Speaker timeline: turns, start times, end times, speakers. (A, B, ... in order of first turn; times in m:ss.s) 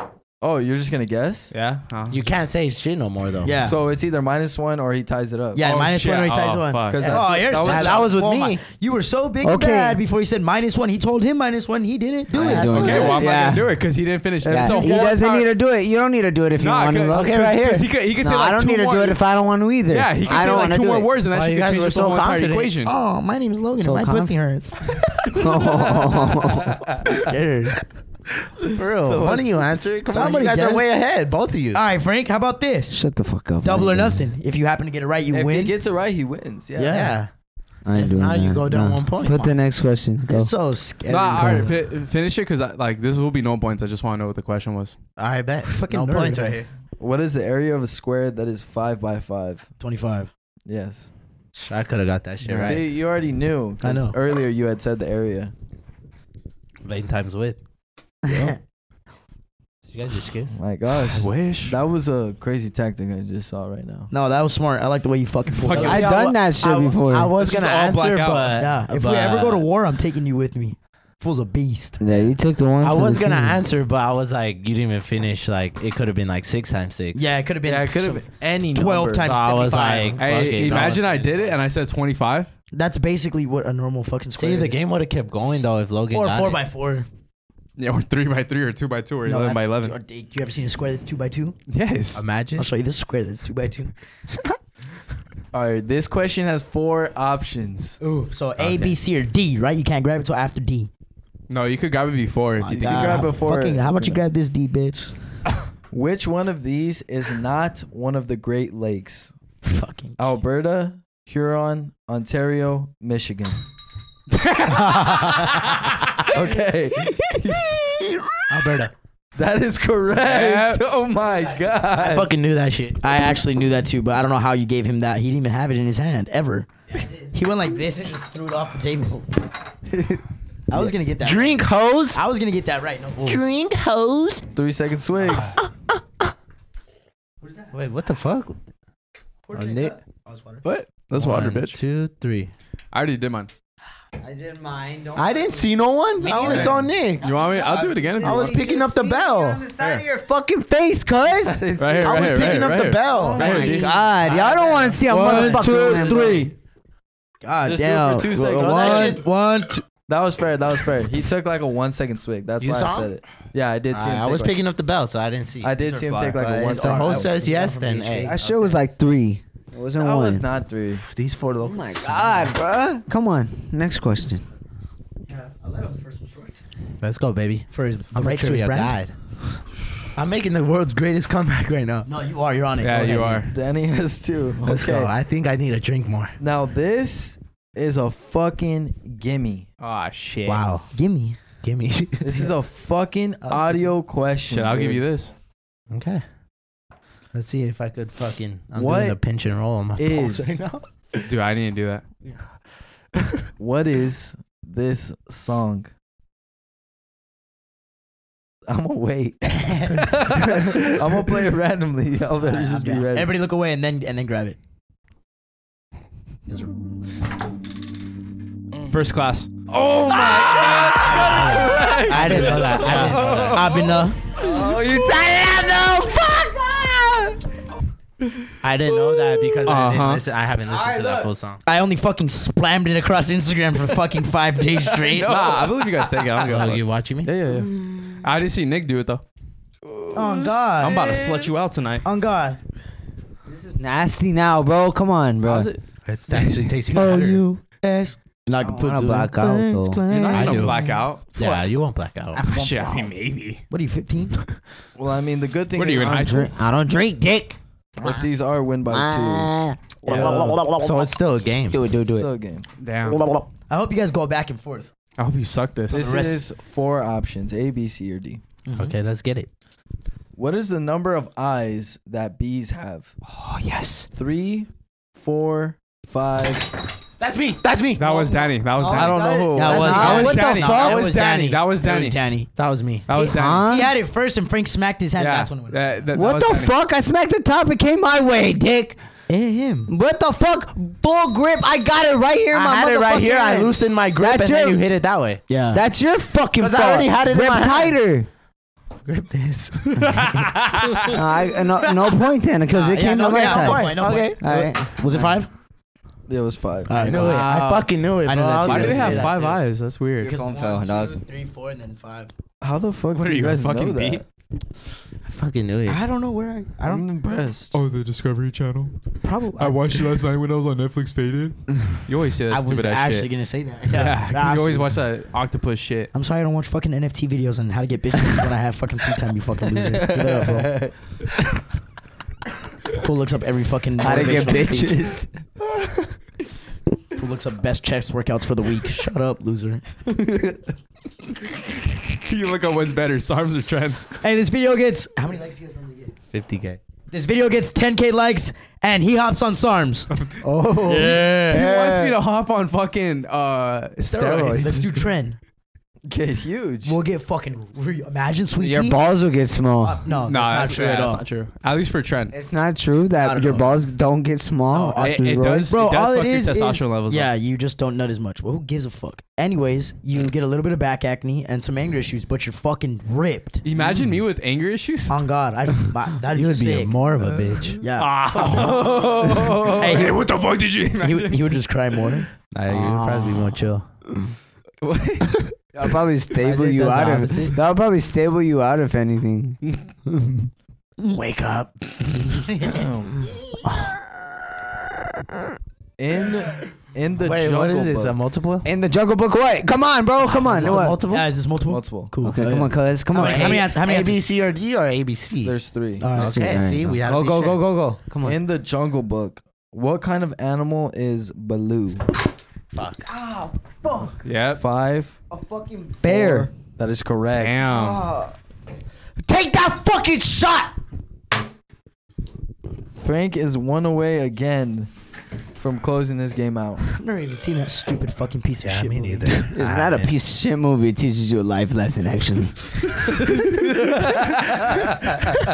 0:00.4-0:01.5 A
0:01.5-0:02.2 B
0:02.1-0:03.6 C
0:03.4-0:03.8 D
0:03.6-0:05.6 A
0:05.5-0:13.2 D
0:05.6-0:07.0 B
0:06.9-0:08.1 A
0:07.0-0:08.6 C
0:09.4-0:10.0 E
0:12.3-0:13.2 C
0:12.3-0:13.8 E
0:12.7-0:15.5 B
0:14.4-0:15.2 A
0:14.5-0:17.6 E
0:16.5-0:19.2 B
0:17.1-0:17.9 C
0:18.2-0:21.1 E
0:19.9-0:22.9 B
0:21.3-0:22.7 C
0:22.8-0:25.4 D
0:23.8-0:24.3 E
0:25.3-0:26.8 E
0:25.7-0:26.4 B
0:26.9-0:27.8 D
0:28.7-0:31.8 C
0:29.0-0:29.6 A
0:30.1-0:30.8 D
0:31.7-0:33.0 D
0:32.9-0:34.3 E
0:33.6-0:35.7 D
0:35.3-0:37.1 A
0:36.8-0:37.1 D
0:36.8-0:37.3 C
0:37.8-0:40.5 E
0:37.9-0:39.6 C
0:40.3-0:41.8 D
0:41.1-0:45.0 B
0:45.2-0:46.7 C
0:45.6-0:46.6 D
0:47.0-0:49.7 A
0:49.8-0:50.3 D
0:50.6-0:51.1 A
0:51.5-0:52.8 C
0:52.5-0:52.7 B
0:52.6-0:55.5 A
0:53.8-0:54.2 D
0:56.8-0:57.6 C
0:58.2-0:58.6 D
0:58.3-0:58.5 A
0:59.9-1:00.6 C
1:00.5-1:04.1 A
1:01.0-1:01.8 B
1:04.1-1:06.4 D
1:05.5-1:06.1 B
1:05.7-1:09.7 C
1:05.7-1:07.3 E
1:07.4-1:08.6 B
1:08.6-1:12.3 D
1:12.0-1:13.6 E
1:12.8-1:17.3 C
1:17.1-1:20.9 D
1:17.6-1:19.5 A
1:19.2-1:21.6 C
1:20.2-1:22.5 B
1:22.7-1:24.8 D
1:24.3-1:26.6 C
1:26.1-1:27.1 D
1:27.8-1:29.9 B
1:29.2-1:31.6 D
1:31.7-1:32.2 B
1:32.1-1:32.7 C
1:32.6-1:33.9 D
1:35.5-1:38.0 A
1:38.0-1:40.9 D
1:41.5-1:43.3 B
1:42.6-1:45.1 D
1:42.7-1:44.2 A
1:45.9-1:49.3 A
1:49.6-1:50.2 D
1:50.2-1:53.6 A
1:54.5-1:55.6 B
1:54.5-1:56.2 D
1:56.3-1:58.2 A
1:58.5-1:58.9 C
1:59.4-2:02.3 A
2:00.2-2:00.9 B
2:01.9-2:03.0 C
2:03.0-2:09.4 D
2:10.7-2:13.4 D
2:11.2-2:12.2 C
2:13.2-2:14.4 C
2:14.5-2:15.6 A
2:15.3-2:15.6 C
2:17.4-2:17.7 D
2:17.7-2:18.6 C
2:19.5-2:20.6 D
2:19.5-2:20.0 C
2:20.6-2:21.8 B
2:21.1-2:22.5 C
2:22.9-2:23.5 B
2:24.2-2:25.7 E
2:25.2-2:27.2 C
2:26.2-2:28.0 D
2:26.3-2:31.6 E
2:26.4-2:28.5 B
2:28.2-2:29.6 C
2:31.4-2:32.4 A
2:31.8-2:34.0 B
2:32.0-2:33.8 C
2:33.1-2:36.5 E
2:33.3-2:36.5 D
2:35.1-2:36.4 C
2:37.4-2:39.9 D
2:37.6-2:39.2 A
2:38.4-2:39.2 C
2:40.0-2:44.6 A
2:42.6-2:43.1 C
2:43.9-2:48.6 C
2:45.6-2:47.3 A
2:45.8-2:46.4 B
2:46.6-2:48.3 D
2:48.2-2:50.4 E
2:50.0-2:51.0 A
2:51.1-2:52.5 C
2:51.6-2:54.4 E
2:55.3-2:56.6 D
2:57.0-2:59.1 C
2:57.7-2:59.0 D
3:00.1-3:02.1 C
3:02.1-3:03.5 D
3:02.8-3:03.5 B
3:03.5-3:05.1 A
3:04.6-3:06.4 C
3:06.4-3:09.7 A
3:09.8-3:10.7 B
3:10.4-3:10.8 C
3:10.9-3:11.4 D
3:11.6-3:12.5 C
3:12.2-3:15.1 A
3:13.4-3:13.9 D
3:14.5-3:15.3 B
3:15.9-3:16.2 C
3:17.3-3:20.8 C
3:18.7-3:19.2 A
3:20.0-3:20.6 A
3:21.2-3:22.0 B
3:23.6-3:25.9 A
3:28.6-3:33.3 A
3:29.6-3:30.1 D
3:32.4-3:34.6 D
3:38.9-3:44.1 B
3:39.8-3:41.5 A
3:41.2-3:43.8 C
3:41.2-3:44.4 D
3:44.4-3:47.4 E
3:48.6-3:51.6 C
3:49.6-3:50.2 B
3:50.7-3:51.2 E
3:51.6-3:55.7 D
3:54.8-3:59.2 B
3:56.4-3:57.3 C
4:00.0-4:02.0 B
4:00.1-4:01.5 D
4:02.0-4:02.6 D
4:03.4-4:05.7 E
4:05.4-4:06.5 B
4:06.0-4:07.4 C
4:06.9-4:07.6 E
4:07.6-4:09.9 D
4:08.6-4:10.7 E
4:09.4-4:12.4 C
4:10.1-4:11.4 B
4:10.4-4:10.7 D
4:12.4-4:13.1 D
4:12.4-4:13.6 B
4:13.7-4:14.6 D
4:15.0-4:16.4 A
4:15.7-4:16.5 B
4:16.0-4:17.6 E
4:18.0-4:20.5 A
4:18.9-4:21.0 E
4:20.1-4:20.6 D
4:20.1-4:21.8 C
4:21.7-4:22.3 E
4:22.1-4:22.6 A
4:22.8-4:23.2 B
4:23.1-4:23.4 E
4:23.7-4:24.9 D
4:25.2-4:26.0 B
4:25.9-4:26.4 D
4:25.9-4:28.4 A
4:28.7-4:28.9 D
4:28.7-4:29.5 C
4:30.4-4:33.1 A
4:33.2-4:34.1 E
4:34.1-4:36.7 A
4:37.2-4:38.5 C
4:38.0-4:42.2 B
4:38.8-4:41.2 E
4:38.8-4:39.8 A
4:39.5-4:42.5 D
4:39.6-4:40.4 C
4:42.6-4:43.1 C
4:43.1-4:43.7 B
4:43.1-4:44.0 E
4:43.2-4:46.0 D
4:45.2-4:46.8 B
4:46.1-4:49.0 E
4:49.3-4:49.9 D
4:49.9-4:54.8 E
4:52.5-4:55.4 C
4:55.5-4:55.8 D
4:55.7-4:58.3 E
4:56.6-4:58.0 C
4:59.1-5:00.2 C
5:00.0-5:01.2 B
5:01.1-5:04.9 E
5:02.7-5:05.5 D
5:03.2-5:04.4 C
5:06.3-5:06.9 A
5:06.9-5:09.6 D
5:06.9-5:09.5 C
5:07.0-5:07.9 B
5:08.6-5:10.3 B
5:10.2-5:12.3 D
5:10.2-5:11.2 E
5:12.6-5:14.2 A
5:13.1-5:14.2 B
5:15.2-5:16.0 C
5:15.9-5:17.1 D
5:16.8-5:17.8 A
5:17.7-5:23.3 B
5:19.2-5:19.8 D
5:22.5-5:24.9 D
5:23.8-5:26.1 B
5:26.1-5:30.9 D
5:30.2-5:30.9 A
5:32.9-5:35.1 D
5:34.0-5:35.3 E
5:37.1-5:39.8 D
5:42.0-5:44.1 B
5:44.2-5:46.1 D
5:46.3-5:46.8 C
5:47.1-5:50.1 D
5:50.4-5:51.2 C
5:50.6-5:51.7 D
5:51.4-5:54.9 B
5:54.1-5:55.4 D
5:54.4-5:54.7 A
5:56.0-5:57.0 A
5:56.8-5:59.0 D
5:58.6-6:00.1 E
5:59.8-6:01.2 D
6:00.2-6:02.3 B
6:02.3-6:05.7 E
6:03.1-6:03.7 D
6:04.7-6:13.6 D
6:05.0-6:07.3 B
6:13.6-6:15.2 B
6:15.1-6:17.0 D
6:16.3-6:17.8 C
6:17.5-6:21.6 B
6:17.8-6:20.3 D
6:21.0-6:22.3 D
6:22.5-6:23.9 C
6:22.7-6:23.0 E
6:24.8-6:25.5 B
6:25.8-6:29.6 E
6:26.4-6:27.6 C
6:26.5-6:27.5 D
6:31.0-6:32.8 D
6:32.6-6:33.3 A
6:33.6-6:33.9 D
6:36.0-6:38.2 A
6:37.2-6:38.7 C
6:38.6-6:41.0 E
6:40.3-6:41.3 C
6:40.6-6:44.2 D
6:41.7-6:42.1 A
6:42.2-6:43.7 E
6:43.1-6:45.6 C
6:45.4-6:46.1 A
6:46.0-6:46.6 D
6:46.1-6:47.6 C
6:46.1-6:48.4 E
6:48.2-6:52.1 A
6:52.7-6:53.1 C
6:53.0-6:54.2 E
6:54.2-6:54.6 B
6:54.5-6:55.2 A
6:55.3-6:56.5 E
6:56.0-6:57.7 A
6:57.3-6:58.1 B
6:57.7-6:58.3 E
6:59.2-7:00.7 E
7:03.0-7:04.9 A
7:05.6-7:06.8 A
7:06.9-7:09.5 D
7:08.6-7:10.1 C
7:09.4-7:13.4 E
7:13.3-7:14.8 B